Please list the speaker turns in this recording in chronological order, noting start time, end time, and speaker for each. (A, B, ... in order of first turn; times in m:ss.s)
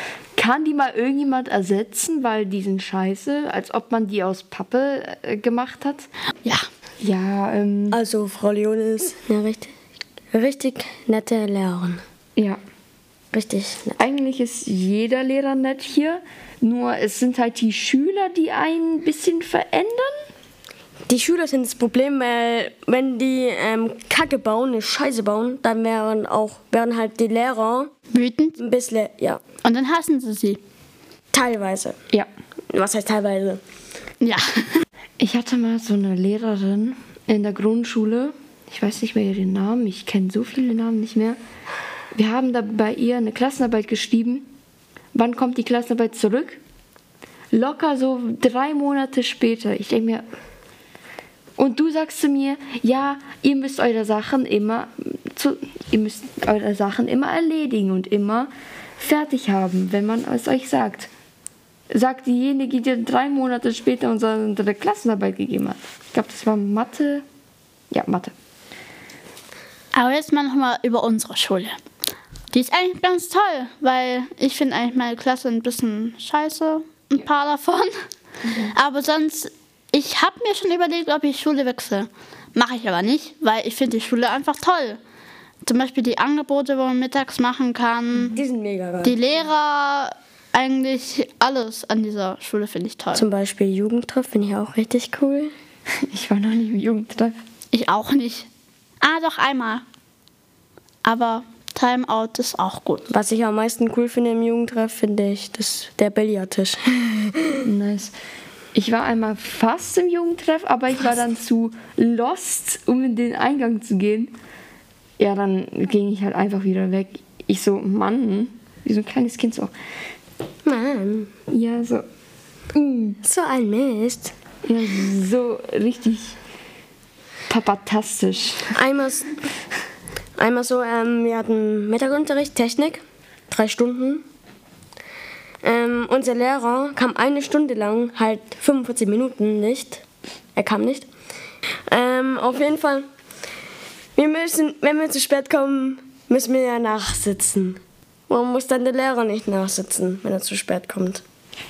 0:00.4-0:06.1 A
0:07.0-0:08.0 A
0:07.9-0:09.7 B
0:10.3-0:12.0 B
0:13.3-0:14.0 B
0:14.0-0:20.2 A
0:21.1-0:27.9 B
0:28.1-0:28.6 C
0:28.6-0:29.4 B
0:29.6-0:30.6 C
0:31.3-0:32.0 B
0:32.7-0:33.6 B
0:34.2-0:34.7 C
0:35.2-0:41.4 A
0:42.1-0:44.5 A
0:45.1-0:46.6 A
0:47.5-0:50.2 A
0:51.6-1:01.1 A
1:01.9-1:07.2 A
1:07.9-1:08.3 A
1:09.9-1:11.8 C
1:12.5-1:17.9 C
1:18.5-1:25.0 C
1:25.6-1:28.4 C
1:28.3-1:29.2 B
1:29.0-1:33.3 C
1:33.1-1:35.5 B
1:36.1-1:37.4 A
1:37.7-1:38.5 C
1:39.0-1:39.8 C
1:41.0-1:43.1 C
1:43.1-1:47.6 B
1:47.6-1:48.1 A
1:48.7-1:54.3 A
1:55.2-1:59.7 A
2:00.6-2:01.3 B
2:01.5-2:02.0 A
2:02.7-2:03.2 A
2:03.2-2:04.3 B
2:04.6-2:06.4 A
2:07.5-2:08.7 A
2:08.7-2:09.3 B
2:10.4-2:14.2 B
2:15.6-2:20.0 B
2:20.6-2:21.1 B
2:21.9-2:23.1 B
2:24.2-2:31.2 B